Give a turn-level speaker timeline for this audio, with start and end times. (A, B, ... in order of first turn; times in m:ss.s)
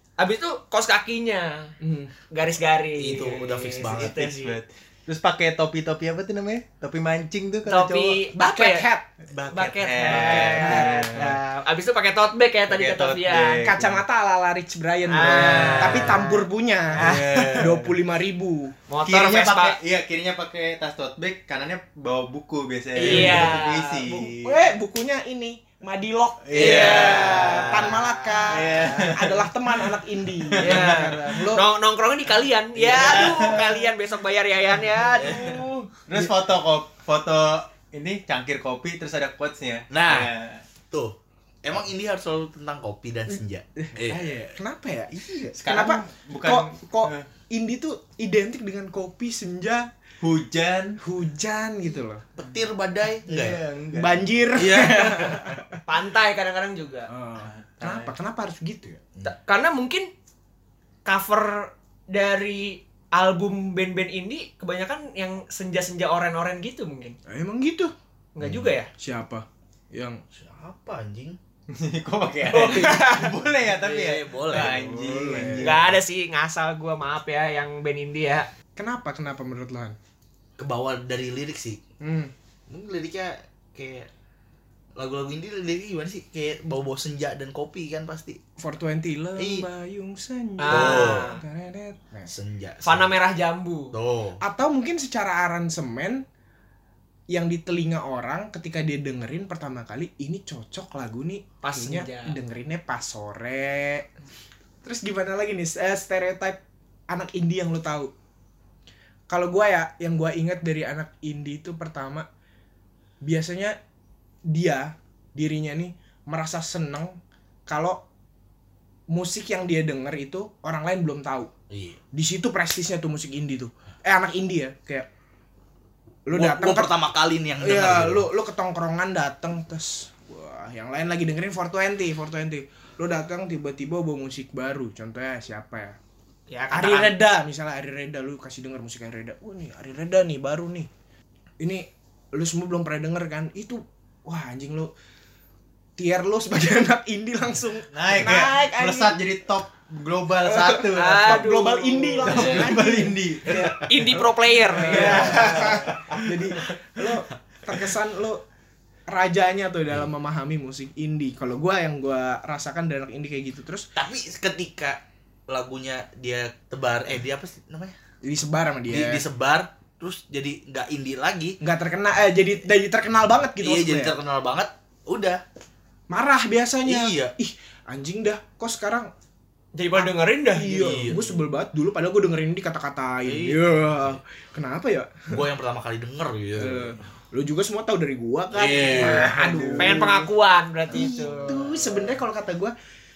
0:00.2-0:01.7 A
0:01.8-0:02.1 B
0:02.3-0:04.6 A
0:03.0-0:04.2 C
0:03.9-0:08.2 D
0:07.6-0:08.8 A
0:08.3-0:09.1 B
0:09.3-0:11.4 D
0:09.5-0:13.6 A
0:10.1-0:11.3 B
0:12.7-0:14.0 D
0:13.6-0:18.7 B
0:15.1-0:16.4 A
0:15.2-0:16.2 D
0:16.9-0:17.9 D
0:17.0-0:17.6 A
0:18.9-0:19.8 A
0:19.0-0:24.6 D
0:23.0-0:24.3 A
0:23.0-0:23.4 B
0:24.4-0:31.6 B
0:26.4-0:27.9 D
0:26.5-0:29.1 A
0:28.5-0:29.4 D
0:30.4-0:31.4 D
0:30.6-0:35.7 A
0:32.8-0:33.3 C
0:32.8-0:33.8 D
0:35.2-0:35.5 C
0:35.2-0:36.3 B
0:36.1-0:40.6 D
0:39.9-0:40.3 C
0:40.9-0:44.6 C
0:43.8-0:49.9 B
0:45.5-0:47.2 D
0:50.2-0:51.0 D
0:51.0-0:52.2 B
0:52.4-0:53.6 C
0:53.2-0:54.3 D
0:53.9-0:55.8 B
0:54.5-0:55.6 C
0:55.8-0:57.1 A
0:57.1-0:59.0 B
0:57.4-0:58.1 D
0:59.2-1:00.1 A
1:01.0-1:07.2 A
1:07.3-1:07.9 B
1:08.3-1:08.9 A
1:08.4-1:08.7 C
1:09.0-1:10.2 B
1:10.3-1:11.4 C
1:11.7-1:15.7 D
1:12.5-1:13.3 A
1:13.6-1:15.6 C
1:14.7-1:15.8 B
1:15.6-1:18.5 A
1:18.8-1:20.0 B
1:20.6-1:21.8 C
1:22.0-1:22.3 B
1:22.7-1:24.1 C
1:25.0-1:28.4 C
1:28.6-1:32.3 B
1:29.4-1:29.7 C
1:30.6-1:31.4 A
1:30.6-1:31.3 C
1:32.3-1:33.1 C
1:32.8-1:33.9 A
1:33.9-1:34.4 C
1:34.4-1:36.2 B
1:37.3-1:44.1 B
1:41.6-1:42.4 A
1:44.8-1:48.1 B
1:49.3-1:52.2 B
1:53.2-1:53.8 B
1:54.5-1:58.0 B
1:59.1-2:01.5 B
2:01.7-2:02.0 C
2:02.1-2:05.1 B
2:06.2-2:06.9 B
2:06.3-2:08.3 C
2:07.6-2:16.0 B
2:16.5-2:17.2 A
2:16.7-2:20.9 B
2:21.6-2:24.9 B
2:26.0-2:29.2 B
2:27.9-2:31.5 D
2:30.4-2:38.4 B
2:30.9-2:32.6 A
2:32.2-2:33.8 D
2:33.5-2:35.8 A
2:34.8-2:37.1 D
2:39.1-2:43.9 B
2:44.0-2:48.0 C
2:48.2-2:49.2 B
2:48.9-2:51.6 C
2:51.6-2:54.1 B
2:53.6-2:55.4 C
2:56.1-2:59.1 B
2:56.8-2:57.3 C
2:59.7-3:00.9 A
3:00.0-3:05.4 B
3:00.7-3:01.4 C
3:03.2-3:04.2 C
3:05.3-3:07.0 C
3:06.6-3:10.3 B
3:08.5-3:09.4 C
3:08.8-3:10.0 D
3:09.8-3:11.7 A
3:10.9-3:12.7 B